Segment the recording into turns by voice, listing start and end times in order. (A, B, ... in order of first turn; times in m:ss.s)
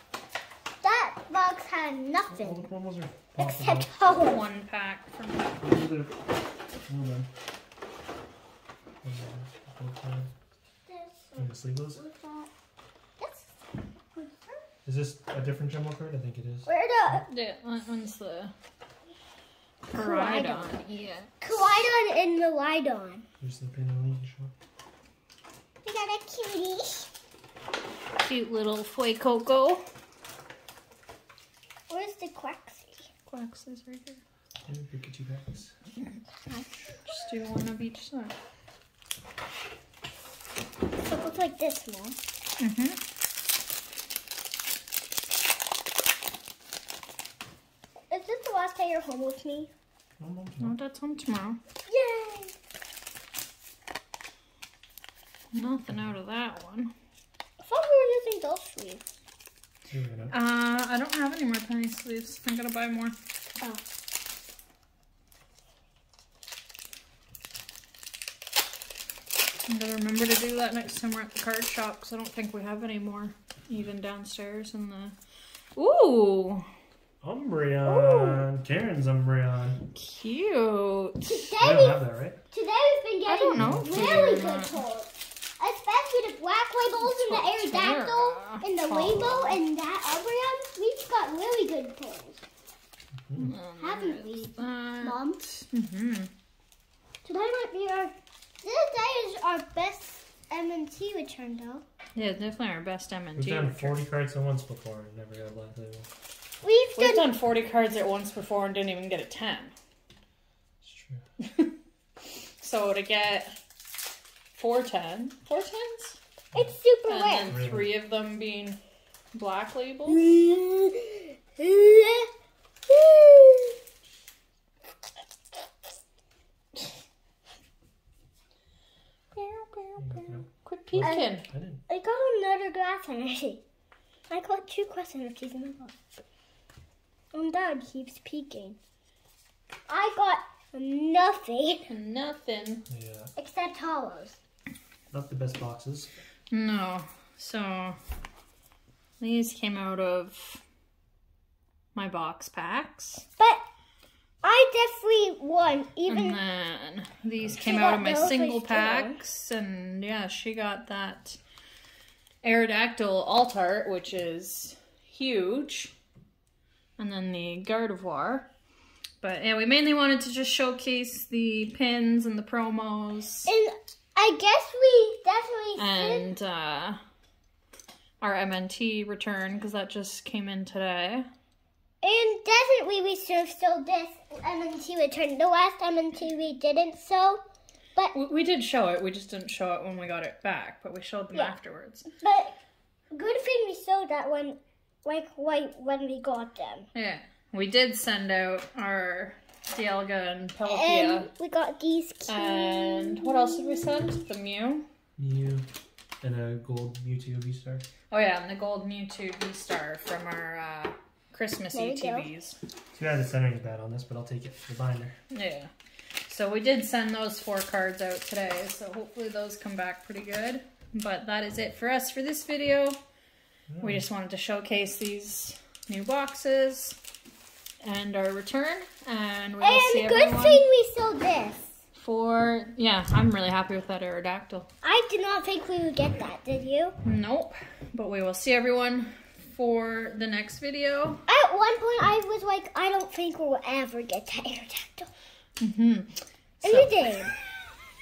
0:00.8-0:02.7 A
0:02.3-0:03.9 B
0:03.4-0:04.4 A
0:04.2-0:05.6 C
0:05.6-0:06.3 B
0:06.8-0:07.3 B
0:09.0-0:10.3 B
0:10.9-0:12.5 A
0:11.4-0:12.0 B
0:13.2-0:13.6 A
0:14.1-0:14.6 A
0:14.8-0:16.7 B
0:16.7-0:17.3 A
0:17.3-0:18.5 C
0:19.9-0:21.7 C
0:19.9-0:20.8 A
0:21.4-0:23.2 A
0:23.4-0:24.5 B
0:25.8-0:27.1 A
0:28.2-0:29.8 C
0:31.9-0:33.1 A
0:33.3-0:34.2 C
0:34.7-0:35.7 B
0:36.4-0:37.2 A
0:37.1-0:38.4 C
0:41.0-0:42.2 A
0:42.6-0:43.0 C
0:48.1-0:49.7 A
0:50.2-0:50.8 B
0:50.6-0:51.6 C
0:51.9-0:52.5 A
0:55.5-0:56.9 C
0:57.6-0:59.0 A
0:59.9-1:00.4 B
1:00.3-1:03.2 C
1:09.7-1:15.2 C
1:15.8-1:16.7 C
1:17.2-1:19.8 B
1:17.8-1:18.4 A
1:20.0-1:21.5 C
1:21.2-1:32.4 A
1:21.6-1:22.4 B
1:23.3-1:24.8 C
1:23.6-1:24.4 B
1:27.0-1:29.6 C
1:33.2-1:33.5 B
1:33.4-1:36.3 C
1:33.8-1:35.4 A
1:37.2-1:41.8 A
1:42.2-1:44.0 C
1:43.4-1:46.1 B
1:46.6-1:47.3 A
1:47.0-1:49.7 C
1:50.8-1:51.2 B
1:51.4-1:51.7 C
1:52.6-1:53.6 C
1:54.5-1:56.2 C
1:56.5-1:57.5 A
1:57.1-1:58.8 C
1:57.5-1:58.0 B
1:59.3-2:00.2 C
2:00.1-2:02.3 A
2:02.9-2:03.8 A
2:09.4-2:11.5 C
2:10.0-2:11.8 B
2:11.0-2:11.3 A
2:11.9-2:13.6 A
2:14.3-2:16.0 A
2:17.3-2:18.8 A
2:19.9-2:21.9 A
2:21.9-2:22.8 C
2:22.9-2:23.3 B
2:23.4-2:24.4 A
2:25.1-2:26.2 B
2:26.5-2:28.0 C
2:29.2-2:30.6 C
2:32.0-2:33.2 C
2:34.4-2:36.4 A
2:36.1-2:41.4 C
2:37.6-2:39.2 A
2:42.4-2:45.9 C
2:47.0-2:48.5 C
2:49.2-2:53.5 C
2:53.5-2:56.3 A
2:55.8-2:57.0 C
2:58.2-3:01.3 C
3:02.0-3:07.4 A
3:08.1-3:12.1 C
3:12.2-3:12.6 A
3:13.1-3:16.9 A
3:16.9-3:21.3 C
3:20.6-3:24.0 A
3:22.3-3:24.9 C
3:25.2-3:25.7 B
3:26.2-3:27.9 B
3:28.1-3:32.6 C
3:31.7-3:32.3 A
3:33.0-3:35.2 B
3:35.3-3:35.7 C
3:36.3-3:43.0 C
3:43.7-3:44.0 B
3:43.8-3:47.0 C
3:47.8-3:50.6 C
3:49.6-3:51.8 A
3:52.0-3:54.7 C
3:54.8-3:57.0 A
3:57.0-4:01.2 C
4:01.3-4:05.1 A
4:05.6-4:07.1 C
4:06.6-4:07.3 A